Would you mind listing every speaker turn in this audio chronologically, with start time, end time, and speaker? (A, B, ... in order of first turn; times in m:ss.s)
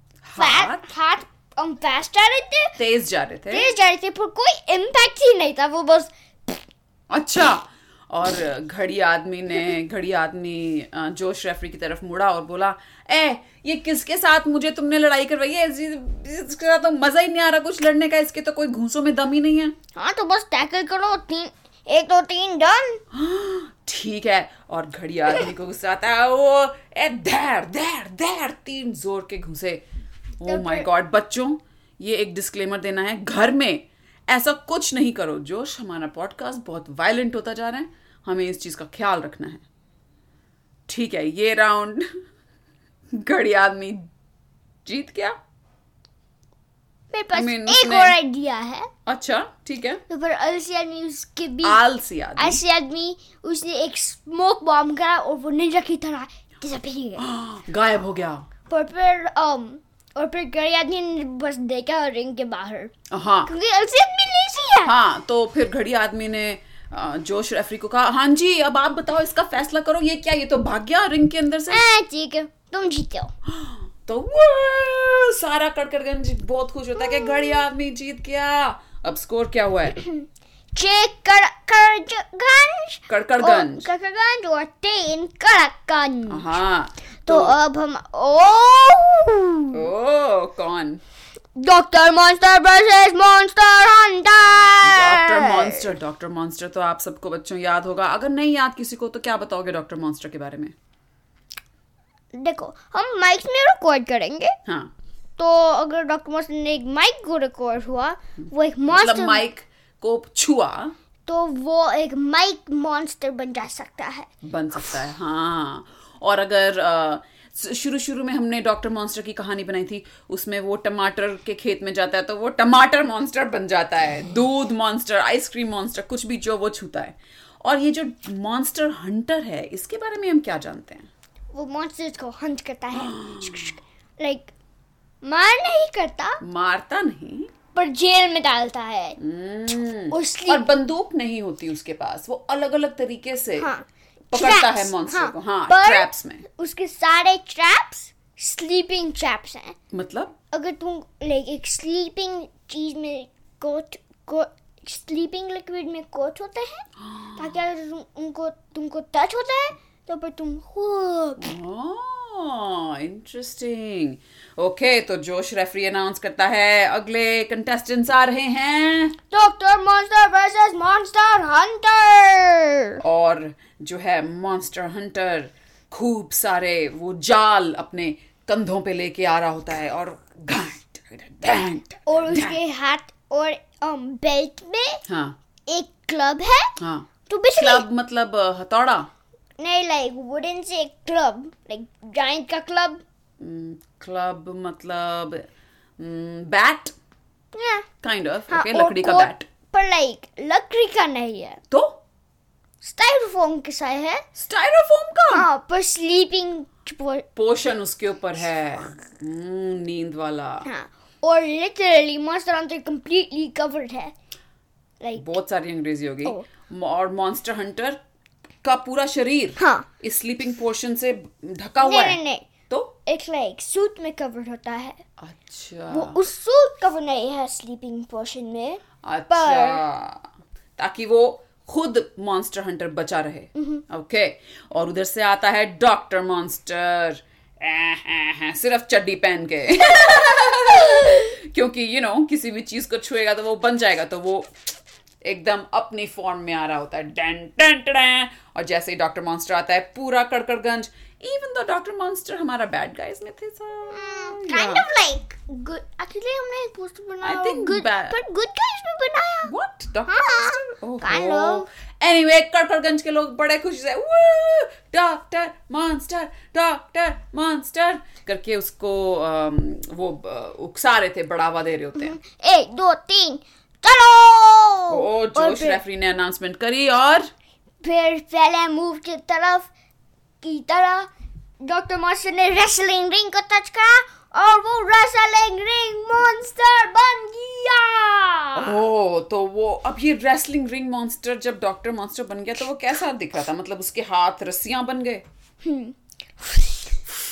0:00.2-0:00.9 A
0:00.4-0:02.8 B
0:02.8-0:03.7 A
0:03.5-0:06.6 B
0:07.1-0:19.7 A
0:19.9-0:23.0 B
0:23.1-0:29.8 A
0:30.4-0:39.6 A
0:30.4-0:30.9 B
0:40.9-0:42.1 A
0:43.1-0:44.1 A
0:44.8-0:45.4 A
0:47.1-0:48.9 B
0:47.3-0:48.2 A
0:49.0-0:50.0 A
0:50.1-0:51.8 B
0:51.6-0:52.6 A
0:52.4-0:57.2 B
0:57.2-0:58.5 A
0:58.7-1:02.9 B
1:03.1-1:03.5 A
1:03.4-1:04.9 B
1:04.8-1:11.8 A
1:11.7-1:13.3 B
1:13.4-1:20.0 A
1:20.0-1:26.5 B
1:23.1-1:23.9 A
1:26.3-1:27.5 A
1:27.2-1:29.8 B
1:29.7-1:31.0 A
1:31.6-1:35.9 B
1:34.8-1:40.7 A
1:42.3-1:44.5 B
1:44.6-1:44.9 A
1:45.4-1:49.4 B
1:48.9-1:50.9 A
1:51.2-1:54.3 B
1:54.4-2:11.1 A
2:11.5-2:14.5 B
2:12.9-2:13.7 A
2:15.2-2:16.4 B
2:16.4-2:17.5 A
2:17.7-2:19.2 B
2:19.2-2:23.7 A
2:20.1-2:20.7 B
2:23.6-2:29.8 B
2:24.3-2:26.4 A
2:29.9-2:30.3 A
2:30.5-2:41.5 B
2:37.0-2:37.5 A
2:41.4-2:49.2 A
2:49.3-2:53.0 B
2:53.0-3:02.6 A
3:02.0-3:05.0 B
3:05.1-3:05.4 A
3:05.7-3:06.8 B
3:06.8-3:09.1 A
3:07.3-3:07.8 B
3:09.6-3:13.0 B
3:13.4-3:15.5 A
3:16.0-3:16.9 A
3:17.5-3:17.9 B
3:18.0-3:19.5 A
3:18.5-3:21.6 B
3:21.7-3:22.0 A
3:22.8-3:24.2 B
3:24.4-3:25.5 A
3:25.3-3:27.2 B
3:27.4-3:30.7 A
3:30.6-3:34.1 B
3:35.0-3:35.3 B
3:35.2-3:38.0 A
3:38.6-3:42.9 A
3:39.6-3:39.9 B
3:41.8-3:42.5 B
3:43.0-3:45.0 B
3:45.2-3:46.2 A
3:45.9-3:49.8 B
3:49.0-3:50.2 A
3:50.8-4:04.5 A
3:53.6-3:53.8 B
4:05.2-4:14.8 A
4:13.9-4:19.5 B
4:17.2-4:18.2 A
4:19.4-4:32.2 A
4:20.1-4:21.7 B
4:32.0-4:35.8 B
4:34.9-4:37.3 A
4:37.8-4:39.7 B
4:40.4-4:41.1 B
4:41.6-4:48.8 B
4:48.5-4:55.2 A
4:55.6-4:56.9 B